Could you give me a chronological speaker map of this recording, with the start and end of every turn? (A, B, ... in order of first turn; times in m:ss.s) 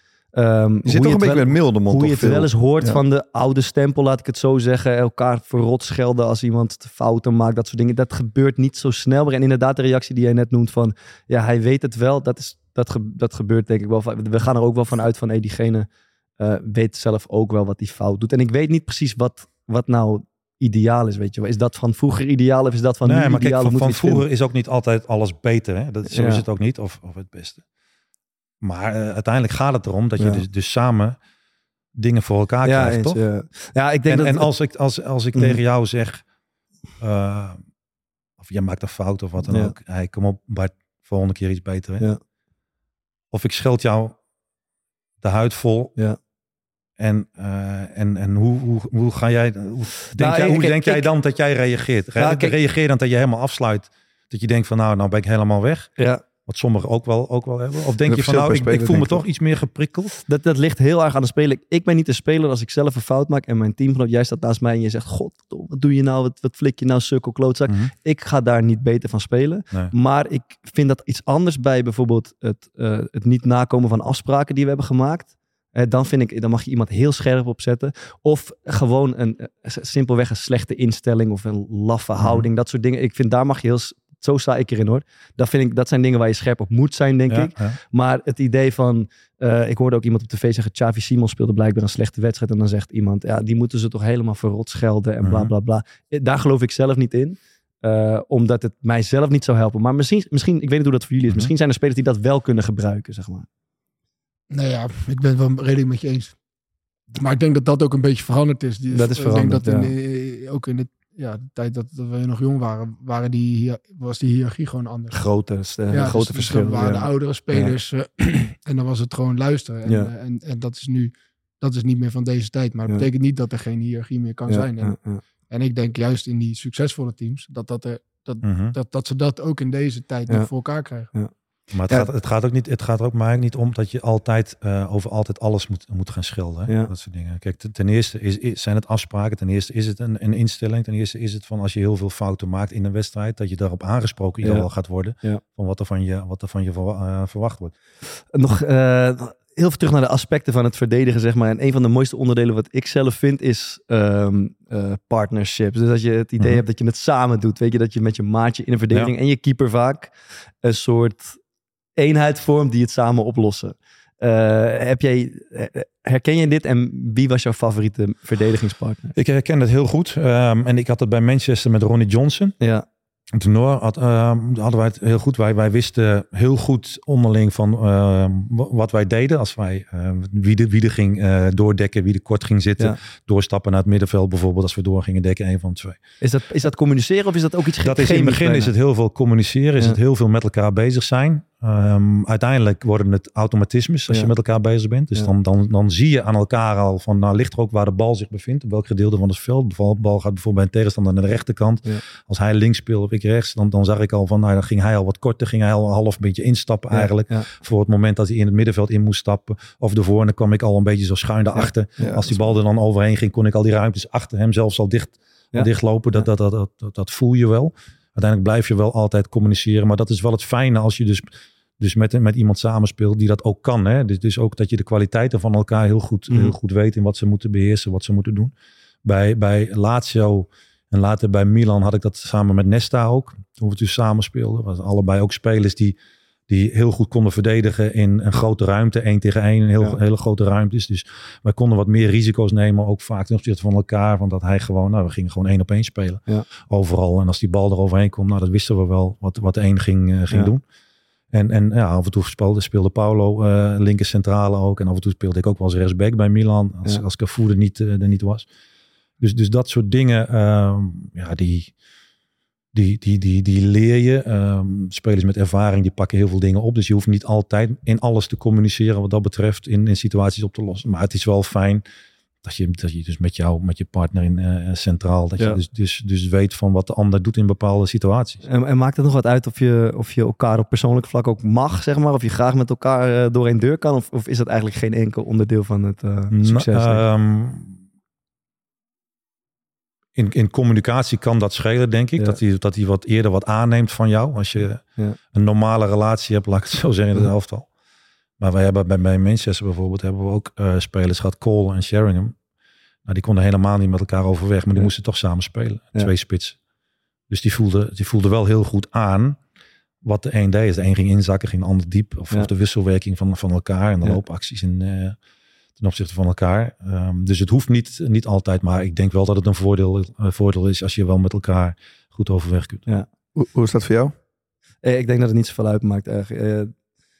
0:00.3-0:15.9 A
0:00.8-0:03.0 B
0:16.4-0:24.2 A
0:23.0-0:27.6 C
0:26.1-0:26.4 A
0:28.6-0:31.2 C
0:30.2-0:30.4 A
0:32.0-0:33.2 C
0:32.6-0:34.5 A
0:34.1-0:36.2 C
0:37.0-0:37.6 C
0:38.4-0:42.1 C
0:39.5-0:39.7 A
0:43.3-0:44.1 C
0:45.2-0:45.9 C
0:47.0-0:55.9 C
0:50.1-0:51.1 A
0:52.2-0:52.5 A
0:56.0-0:56.2 A
0:56.4-1:00.1 C
0:58.0-0:59.2 B
1:00.2-1:43.4 A
1:07.7-1:07.9 C
1:22.2-1:22.5 C
1:27.3-1:27.8 C
1:35.2-1:35.5 C
1:44.5-1:46.4 D
1:47.1-1:55.2 D
1:48.9-1:49.9 A
1:55.1-1:57.7 A
1:55.9-2:11.1 D
2:04.5-2:05.2 A
2:08.4-2:08.8 C
2:11.7-2:27.7 C
2:24.4-2:24.7 A
2:28.3-2:40.1 A
2:40.6-2:41.4 A
2:42.0-2:49.1 A
2:49.1-2:52.6 C
2:52.6-2:52.8 A
2:53.3-3:06.0 C
3:06.2-3:08.7 A
3:07.8-3:41.2 C
3:26.9-3:27.5 A
3:32.0-3:32.4 B
3:35.5-3:36.3 A
3:41.8-3:48.5 C
3:46.3-3:46.5 A
3:49.0-3:56.0 C
3:56.5-4:10.6 C
4:11.3-4:18.4 C
4:19.2-4:21.7 C
4:22.7-4:31.8 C
4:32.4-4:38.4 C
4:38.4-4:47.0 A
4:46.3-4:47.8 C
4:50.2-4:57.7 C
4:58.4-5:02.3 C
5:03.1-5:06.6 C
5:07.3-5:09.4 C
5:10.0-5:15.2 C
5:15.8-5:22.9 C
5:23.3-5:24.1 B
5:24.8-5:26.7 A